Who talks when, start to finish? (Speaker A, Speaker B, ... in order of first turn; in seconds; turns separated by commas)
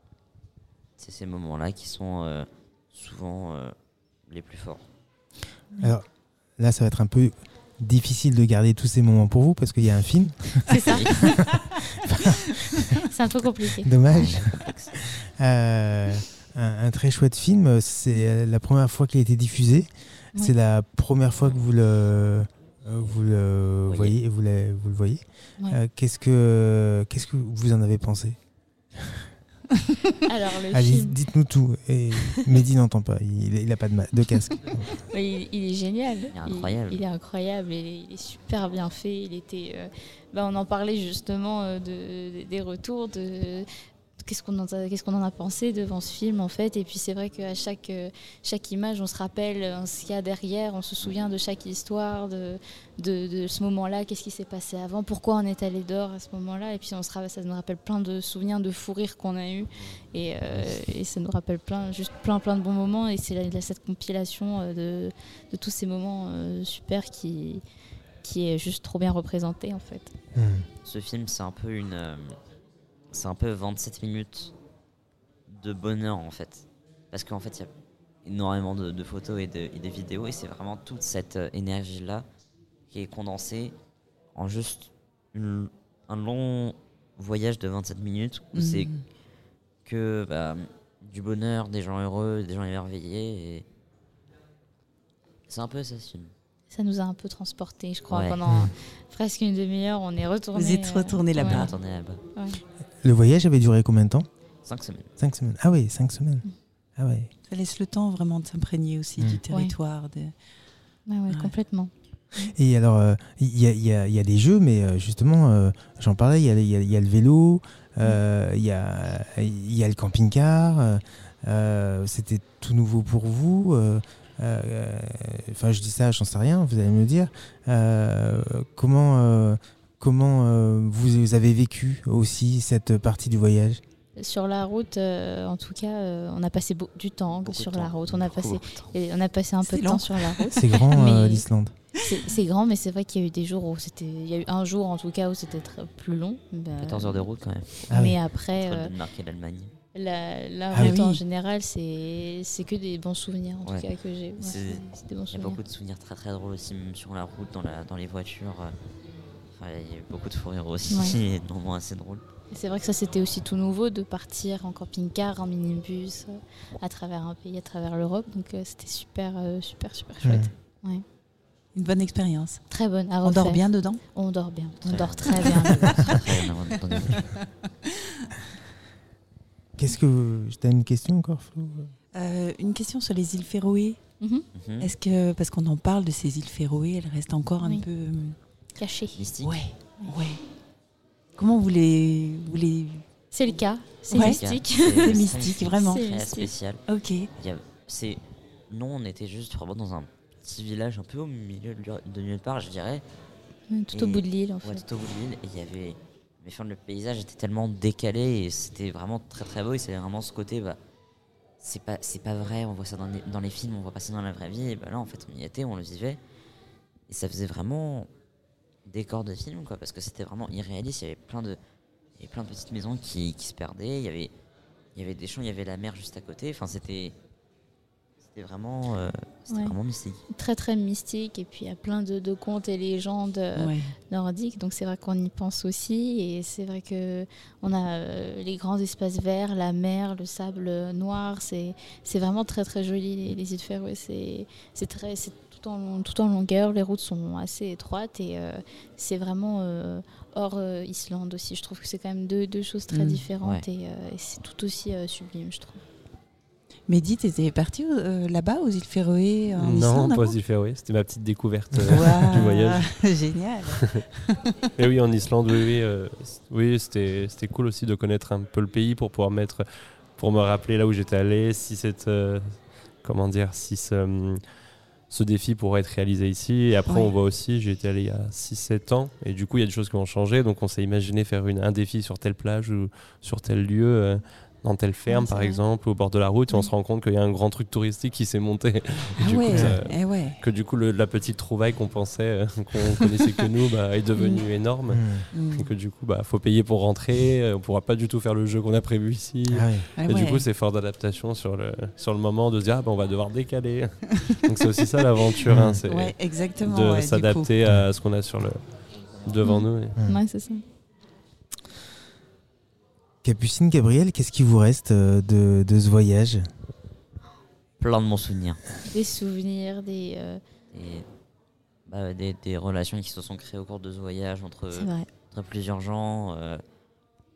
Speaker A: 1.0-3.8, Speaker A: 4.3-4.8, Speaker B: 5.8-6.0, Speaker B: 6.6-13.0, Speaker C: 10.7-11.2, Speaker A: 10.8-11.3, Speaker C: 13.1-13.9, Speaker B: 13.8-28.4, Speaker A: 14.1-14.9, Speaker A: 23.9-24.2, Speaker B: 29.0-29.3, Speaker C: 30.2-31.2, Speaker B: 30.7-34.9, Speaker C: 35.0-43.7, Speaker A: 36.3-37.0, Speaker C: 44.2-67.6, Speaker C: 68.2-70.1, Speaker B: 70.3-70.7, Speaker A: 70.8-72.4, Speaker A: 73.1-74.5, Speaker A: 75.5-77.7, Speaker A: 78.2-82.3, Speaker A: 82.9-83.8, Speaker A: 84.3-88.9, Speaker D: 88.5-89.1, Speaker A: 89.8-93.7, Speaker A: 95.5-96.3, Speaker C: 96.7-101.7, Speaker A: 98.1-98.4, Speaker B: 98.5-98.7, Speaker D: 100.5-101.7, Speaker A: 101.4-102.2, Speaker C: 102.3-102.6, Speaker B: 103.0-104.3, Speaker A: 104.6-105.1, Speaker B: 105.2-106.5, Speaker B: 107.0-107.3, Speaker D: 107.5-110.3, Speaker C: 109.5-109.8, Speaker C: 111.1-112.5, Speaker D: 111.3-111.5, Speaker B: 112.5-133.8, Speaker C: 134.2-147.3, Speaker A: 137.4-138.9, Speaker D: 139.6-140.8, Speaker B: 140.5-141.7, Speaker A: 146.8-149.7, Speaker C: 147.8-148.9, Speaker B: 147.9-148.2, Speaker C: 149.9-155.6, Speaker D: 150.8-151.2, Speaker A: 154.4-158.7, Speaker A: 159.5-162.2, Speaker C: 160.9-161.2, Speaker C: 162.5-171.0, Speaker B: 170.2-170.5, Speaker D: 171.7-172.7, Speaker C: 172.7-176.3, Speaker D: 173.2-174.0, Speaker A: 174.8-177.2, Speaker D: 175.3-176.1, Speaker D: 176.7-178.3, Speaker B: 179.8-181.9, Speaker D: 182.1-184.0, Speaker C: 184.2-184.5, Speaker A: 184.5-184.9, Speaker D: 184.8-188.4, Speaker C: 187.6-187.9, Speaker C: 188.8-189.2, Speaker A: 189.2-189.6, Speaker D: 189.4-190.4, Speaker D: 191.3-193.1, Speaker C: 193.3-196.5, Speaker D: 194.1-196.0, Speaker A: 194.1-203.0, Speaker D: 196.9-197.3, Speaker C: 203.7-204.8, Speaker A: 203.9-210.8, Speaker A: 211.6-216.2, Speaker A: 217.1-218.1, Speaker A: 218.8-221.6, Speaker A: 222.2-224.3, Speaker A: 224.9-227.2, Speaker A: 228.3-230.2, Speaker C: 229.5-229.8, Speaker C: 230.3-255.8, Speaker D: 233.6-233.9, Speaker D: 252.9-253.2, Speaker D: 256.9-260.4, Speaker E: 259.6-262.9, Speaker D: 261.9-264.5, Speaker E: 264.8-310.0, Speaker D: 276.9-277.1, Speaker C: 285.1-285.6, Speaker D: 289.2-290.4, Speaker B: 289.5-289.8, Speaker D: 294.2-294.4, Speaker B: 294.9-295.3, Speaker D: 295.3-295.7, Speaker B: 299.5-299.9, Speaker D: 300.0-300.4, Speaker B: 305.5-305.8, Speaker D: 305.9-307.5, Speaker C: 309.4-310.6, Speaker B: 313.2-316.5, Speaker A: 317.8-318.6, Speaker C: 318.9-320.4, Speaker A: 320.7-321.1, Speaker A: 321.9-326.6, Speaker C: 324.7-325.1